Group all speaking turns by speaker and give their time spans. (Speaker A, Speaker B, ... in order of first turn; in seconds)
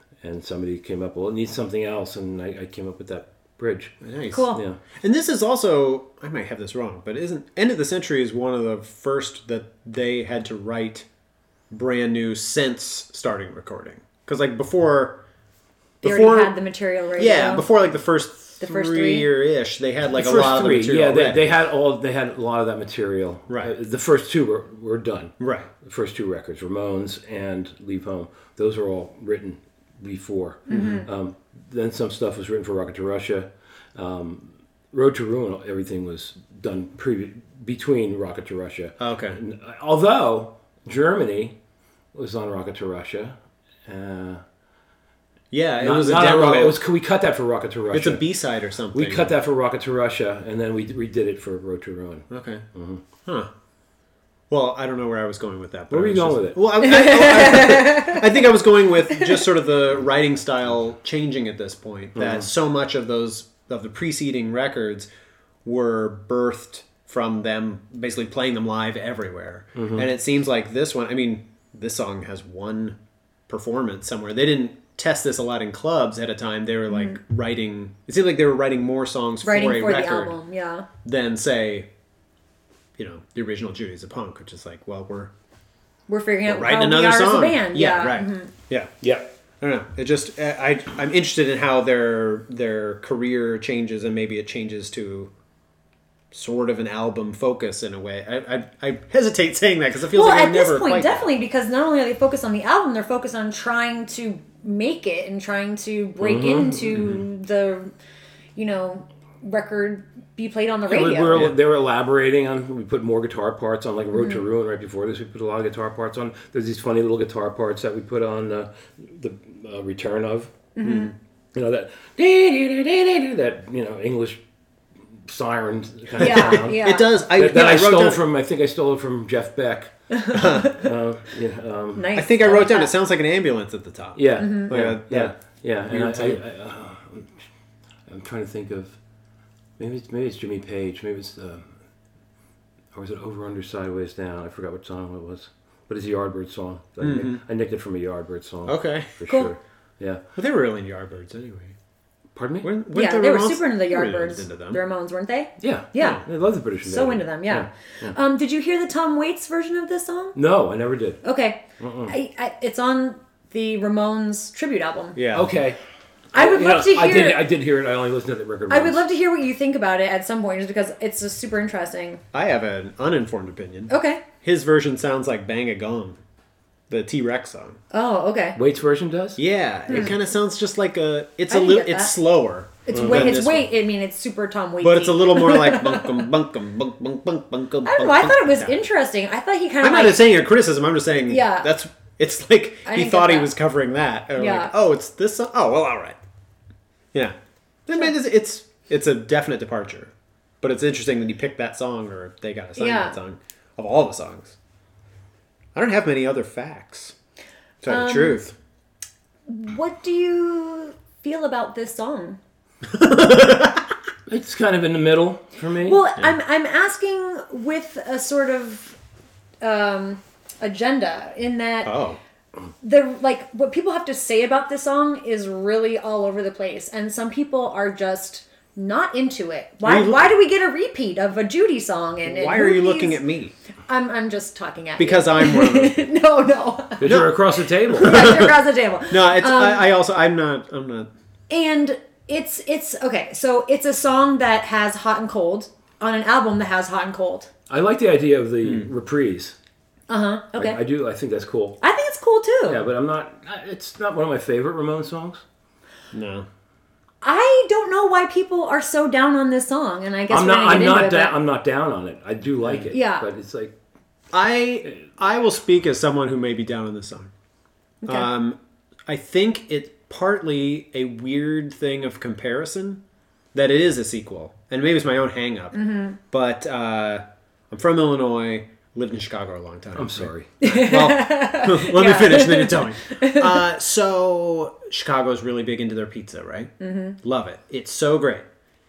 Speaker A: 0.2-4.0, 20.1-41.6, 42.1-44.4, 45.8-48.2, 48.9-53.0, 55.9-56.6, 62.2-62.5, 69.8-70.1, 89.0-89.3, 106.2-107.2, 110.9-120.5, 121.5-124.4, 125.3-132.1, 134.2-137.3, 138.1-139.0, 139.8-141.7, 142.9-150.2, 152.3-152.7, 155.6-158.2, 160.3-161.2, 161.8-162.1, 165.3-165.8, 166.3-169.0, 178.6-179.4, 182.9-183.4, 214.3-216.0, 237.0-238.4, 247.7-249.6, 250.6-251.8, 252.7-255.4, 260.3-263.7, 280.0-280.5
Speaker B: 4.0-11.1, 11.7-15.2, 16.0-16.6, 17.2-21.5, 23.5-23.7, 25.4-25.7, 30.7-31.1, 39.0-39.4, 45.5-46.8, 47.9-49.4, 52.3-52.6, 53.2-53.5, 54.5-65.1, 65.7-80.4, 81.0-81.9, 83.0-85.3, 86.5-88.9, 89.6-95.3, 96.3-101.3, 120.8-121.1, 126.2-128.2, 130.3-130.8, 132.2-135.3, 135.9-136.4, 147.0-147.4, 148.7-149.1, 150.4-151.8, 152.6-154.8, 165.2-165.5, 172.3-176.2, 176.9-177.8, 179.4-183.7, 184.8-188.7, 189.8-196.2, 197.1-204.6, 205.8-207.2, 207.8-208.5, 212.8-213.9, 221.8-222.2, 229.8-230.3, 232.2-233.6, 235.0-236.1, 237.0-237.3, 237.9-238.6, 239.1-241.1, 248.6-248.9, 256.1-256.5, 262.6-262.9, 264.3-267.3, 268.1-273.0, 273.5-275.8, 276.3-288.5
Speaker C: 4.3-4.6, 16.0-17.7, 18.6-19.3, 30.7-31.1, 56.8-58.3, 76.9-77.2, 79.4-80.9, 86.1-88.5, 100.1-107.9, 108.6-111.5, 114.1-114.4, 120.8-121.1, 126.2-127.1, 130.1-130.9, 131.9-132.9, 134.4-134.7, 152.9-156.2, 156.8-160.4, 161.2-165.2, 166.3-167.4, 168.7-172.2, 173.9-174.2, 177.9-178.6, 181.5-182.1, 182.9-186.3, 187.8-190.3, 191.3-191.7, 192.8-193.5, 194.4-194.7, 202.8-203.2, 207.9-208.4, 209.5-212.4, 215.8-219.0, 219.6-221.9, 222.8-233.2, 233.9-237.2, 237.9-239.9, 241.5-247.5, 250.1-250.8, 251.8-252.8, 257.2-261.4, 262.9-263.3, 268.0-268.3, 275.7-276.2, 280.6-283.6, 286.8-287.2